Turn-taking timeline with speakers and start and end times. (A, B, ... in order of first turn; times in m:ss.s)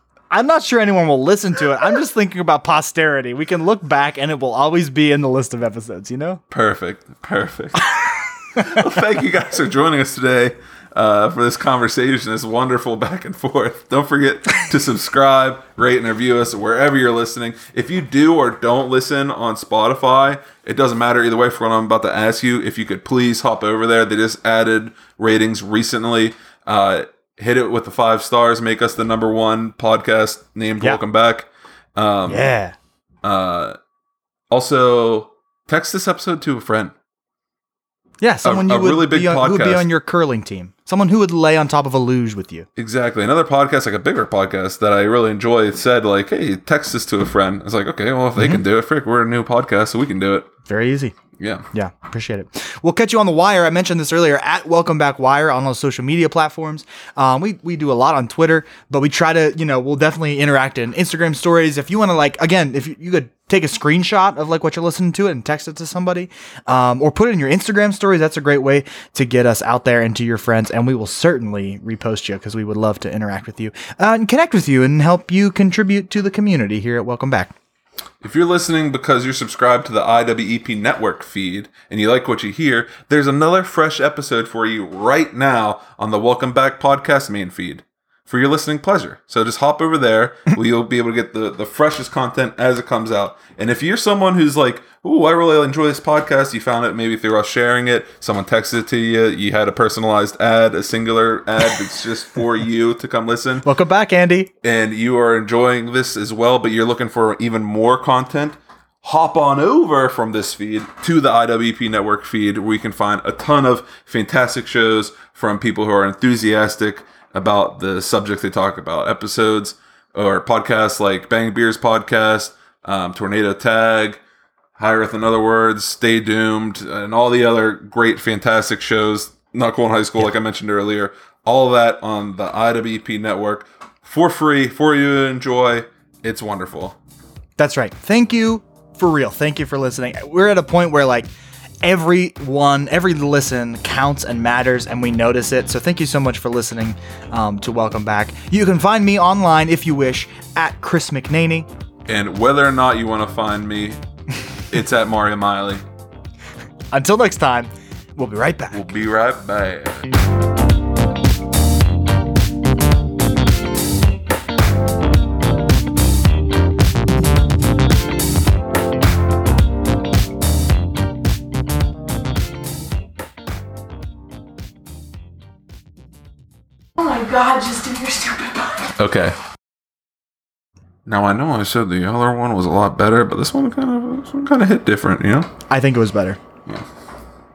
0:00.3-0:06.4 A
0:06.5-0:07.9 B
0:07.9-0:08.8 A
0:08.6-0:32.5 B
0:32.3-0:32.8 A
0:33.2-0:33.8 B
0:34.5-0:36.9 B
0:38.2-0:42.7 A
0:38.4-0:39.9 B
0:42.8-0:50.5 B
0:48.4-0:48.6 A
0:50.7-0:51.1 A
0:51.4-0:51.6 B
0:51.7-1:17.5 A
1:18.2-1:43.6 B
1:43.6-1:44.5 A
1:44.6-2:04.2 B
2:04.8-2:17.0 B
2:17.6-2:21.3 A
2:21.8-2:31.7 A
2:32.1-2:34.0 B
2:34.7-2:35.8 B
2:36.9-2:38.9 A
2:38.7-2:40.1 B
2:57.0-2:58.9 C
2:59.0-2:59.4 B
3:01.0-3:05.5 B
3:05.7-3:06.4 A